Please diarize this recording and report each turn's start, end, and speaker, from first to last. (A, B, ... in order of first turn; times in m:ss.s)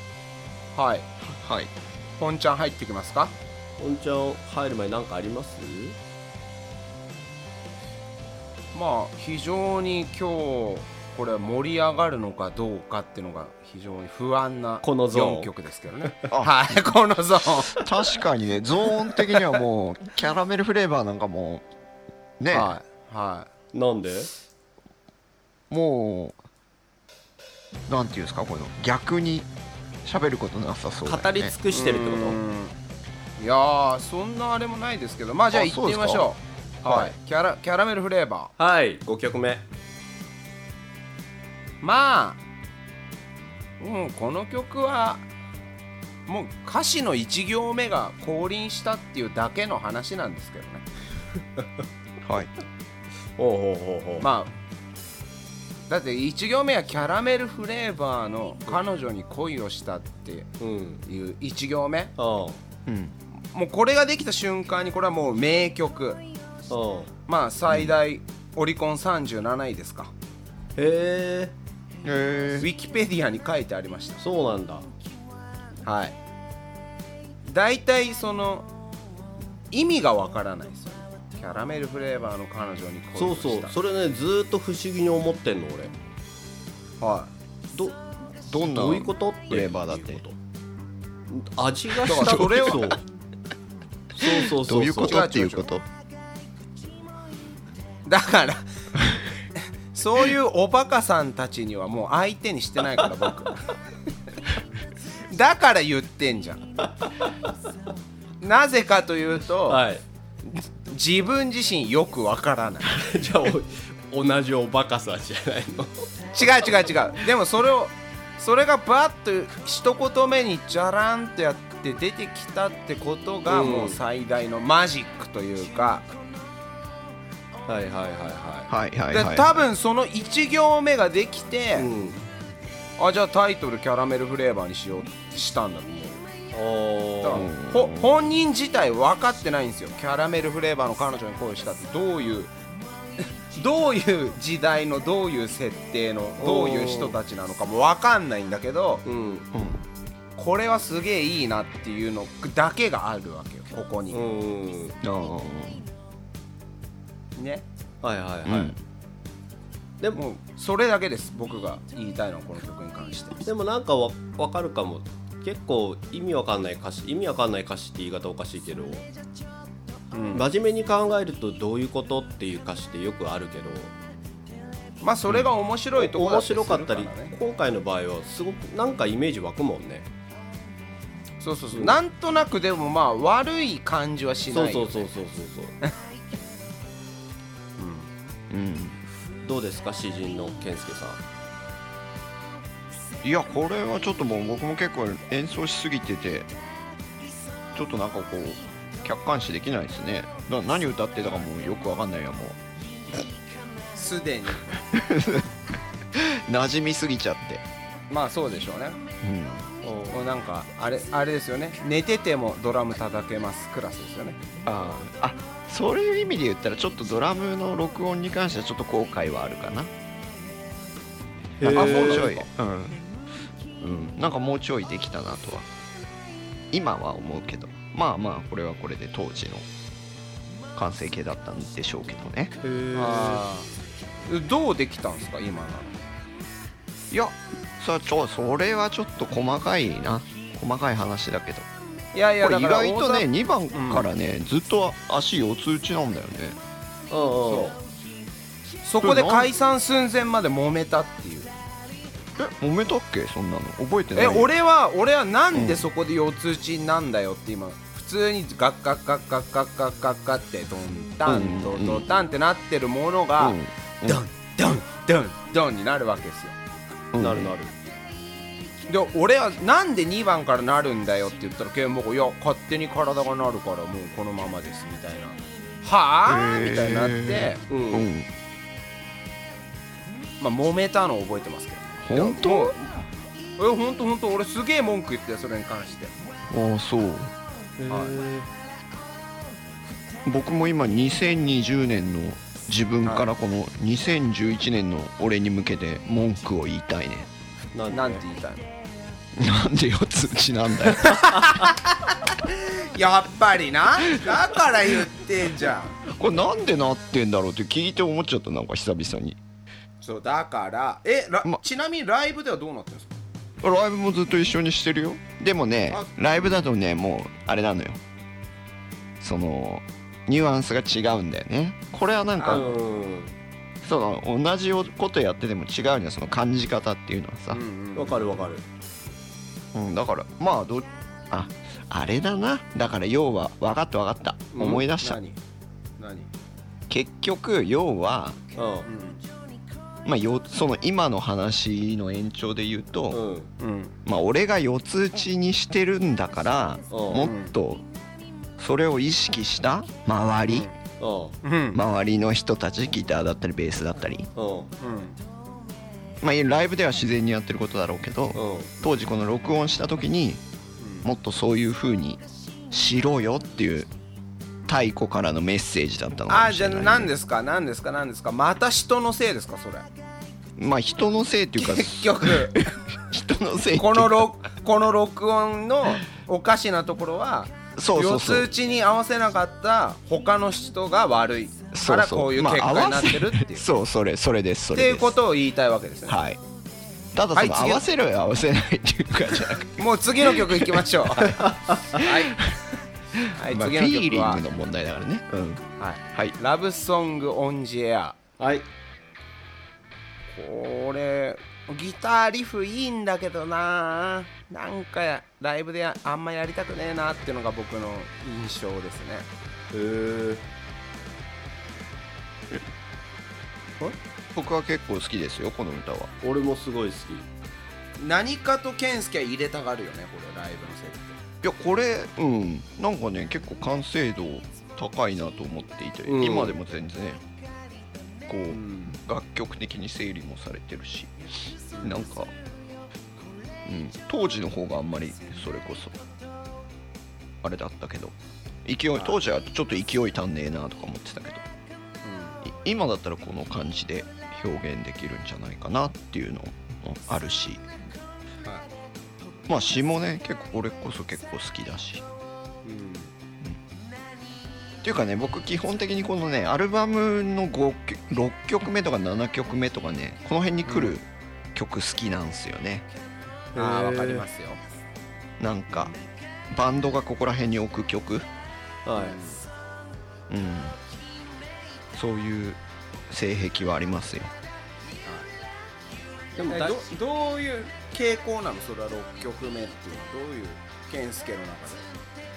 0:00.8-0:01.1 A
0:01.2-0:01.7 B
0:02.2-0:03.3 A
0:03.8-0:06.0 C
0:08.7-0:17.8 A
0:14.8-0:15.5 C
0:17.8-0:21.6 B
0:22.4-0:22.7 B
0:22.5-0:23.5 A
0:23.7-0:24.3 C
0:25.7-0:26.4 B
0:27.9-0:29.5 B
0:30.0-0:31.5 B
0:31.0-0:32.4 C
0:31.7-0:32.7 A
0:33.4-0:38.5 A
0:35.5-0:36.3 B
0:38.6-0:39.6 C
0:41.8-0:42.4 A
0:43.8-0:45.2 A
0:46.3-0:50.8 A
0:52.2-0:52.5 B
0:53.4-0:54.3 C
0:54.2-0:54.5 A
0:55.9-1:00.5 A
1:00.6-1:01.0 C
1:01.0-1:02.1 A
1:02.2-1:02.6 C
1:02.8-1:03.1 B
1:03.5-1:06.2 A
1:06.7-1:07.1 C
1:07.3-1:10.1 A
1:07.7-1:08.0 B
1:10.8-1:11.5 C
1:12.0-1:12.7 B
1:12.6-1:14.2 A
1:14.2-1:14.9 C
1:15.8-1:16.1 A
1:17.4-1:18.7 A
1:19.7-1:23.7 A
1:23.2-1:25.9 C
1:27.0-1:27.3 A
1:28.5-1:30.2 B
1:28.6-1:30.3 C
1:31.3-1:33.0 C
1:32.0-1:32.8 B
1:32.1-1:32.8 A
1:34.1-1:35.2 C
1:34.2-1:35.8 B
1:35.0-1:35.7 A
1:38.0-1:38.6 A
1:39.9-1:43.7 A
1:45.3-1:46.6 A
1:48.4-1:49.8 A
1:49.7-1:50.0 C
1:50.5-1:53.0 A
1:52.9-1:56.0 C
1:56.3-2:06.1 A
2:03.5-2:04.0 C
2:07.7-2:08.7 C
2:08.7-2:09.6 B
2:09.1-2:11.9 A
2:11.8-2:12.2 C
2:13.0-2:16.2 A
2:16.5-2:17.5 C
2:17.2-2:22.5 A
2:17.3-2:18.2 B
2:23.5-2:29.0 A
2:26.4-2:27.2 C
2:29.0-2:29.5 C
2:29.5-2:29.8 B
2:30.4-2:34.3 A
2:34.1-2:35.0 C
2:35.0-2:35.9 B
2:37.4-2:37.6 A
2:38.0-2:38.8 C
2:38.4-2:38.8 B
2:40.1-2:43.4 A
2:43.4-2:49.0 C
2:50.1-2:50.4 A
2:50.3-2:53.9 C
2:55.0-2:57.3 A
2:55.9-3:00.0 C
3:01.4-3:05.1 A
3:01.7-3:02.0 C
3:04.5-3:05.7 C
3:07.8-3:08.1 A
3:08.5-3:09.0 B
3:09.4-3:11.2 C
3:13.2-3:16.5 B
3:17.7-3:22.6 B
3:23.9-3:24.8 A
3:24.9-3:25.5 B
3:26.1-3:27.6 B
3:28.1-3:29.0 A
3:29.2-3:29.7 B
3:29.8-3:30.2 C
3:30.1-3:34.4 A
3:34.6-3:39.9 B
3:41.6-3:42.4 C
3:41.6-3:43.0 B
3:41.7-3:42.4 A
3:43.8-3:45.7 B
3:46.7-3:49.6 B
3:50.7-3:52.5 B
3:52.6-3:53.4 C
3:52.9-3:53.7 A
3:54.3-3:56.0 A
3:57.1-4:01.7 B
4:02.1-4:04.1 A
4:02.4-4:06.6 B
4:07.1-4:07.8 C
4:07.4-4:07.7 A
4:08.8-4:11.5 A
4:09.0-4:09.5 B
4:12.4-4:14.5 B
4:14.1-4:26.6 A
4:15.5-4:15.9 B
4:21.2-4:22.1 B
4:23.4-4:24.2 B
4:27.1-4:27.5 B
4:27.2-4:27.7 C
4:28.9-4:37.6 A
4:36.3-4:38.3 B
4:37.7-4:38.1 C
4:40.4-4:42.9 A
4:42.0-4:42.7 B
4:43.6-4:46.1 A
4:46.5-4:47.3 B
4:47.8-4:48.5 C
4:47.9-4:48.2 A
4:50.2-4:57.3 B
4:57.7-4:58.2 C
4:57.9-4:58.7 A
4:59.4-5:01.2 B
5:01.0-5:06.0 A
5:06.1-5:09.4 B
5:10.0-5:13.1 A
5:13.6-5:18.0 B
5:15.9-5:16.6 A
5:19.2-5:22.7 B
5:22.4-5:22.7 A
5:22.5-5:23.3 C
5:23.8-5:27.6 B
5:27.5-5:28.4 A
5:27.9-5:28.6 C
5:29.7-5:35.2 B
5:34.5-5:34.8 C
5:34.9-5:35.4 A
5:36.0-5:36.3 A
5:36.9-5:38.4 B
5:38.6-5:38.9 C
5:38.8-5:39.2 A
5:40.0-5:43.2 B
5:43.1-5:43.5 C
5:43.6-5:43.9 A
5:44.0-5:47.8 B
5:46.9-5:47.3 C
5:47.1-5:47.5 A
5:48.6-5:50.7 B
5:50.5-5:50.7 A
5:51.0-5:51.4 C
5:51.4-5:51.8 A
5:51.7-5:54.3 B
5:54.4-5:54.7 C
5:54.8-5:55.2 A
5:56.2-6:00.4 B
5:58.3-5:58.7 C
6:00.8-6:01.1 A
6:01.0-6:03.9 B
6:04.7-6:07.1 B
6:06.3-6:09.9 A
6:10.6-6:14.2 B
6:11.6-6:12.7 A
6:13.7-6:23.7 A
6:17.8-6:18.5 B
6:21.7-6:25.1 B
6:24.7-6:26.2 A
6:26.1-6:26.4 B
6:27.1-6:30.8 B
6:27.3-6:27.8 A
6:29.8-6:32.4 A
6:31.2-6:32.0 C
6:33.2-6:36.4 B
6:33.3-6:34.4 A
6:35.8-6:38.2 A
6:38.4-6:38.6 C
6:40.3-6:49.3 A
6:49.7-6:50.4 C
6:54.3-6:56.1 B
6:56.2-6:57.3 C
6:58.0-7:01.2 A
7:01.4-7:07.2 B
7:06.0-7:06.6 C
7:08.3-7:11.1 B
7:08.5-7:09.0 A
7:11.7-7:12.1 A
7:11.8-7:12.3 B
7:13.6-7:16.0 B
7:17.4-7:21.4 B
7:22.0-7:22.4 A
7:22.4-7:27.6 B
7:29.5-7:32.0 B
7:32.6-7:33.1 A
7:34.8-7:42.8 B
7:40.6-7:41.0 A
7:43.5-7:44.2 C
7:43.6-7:44.6 A
7:45.4-7:45.9 B
7:46.5-7:48.3 B
7:48.8-7:49.2 C
7:49.0-7:49.4 A
7:50.3-7:50.8 B
7:51.9-7:52.6 B
7:53.1-7:54.3 B
7:56.4-7:56.8 C
7:56.4-8:01.9 A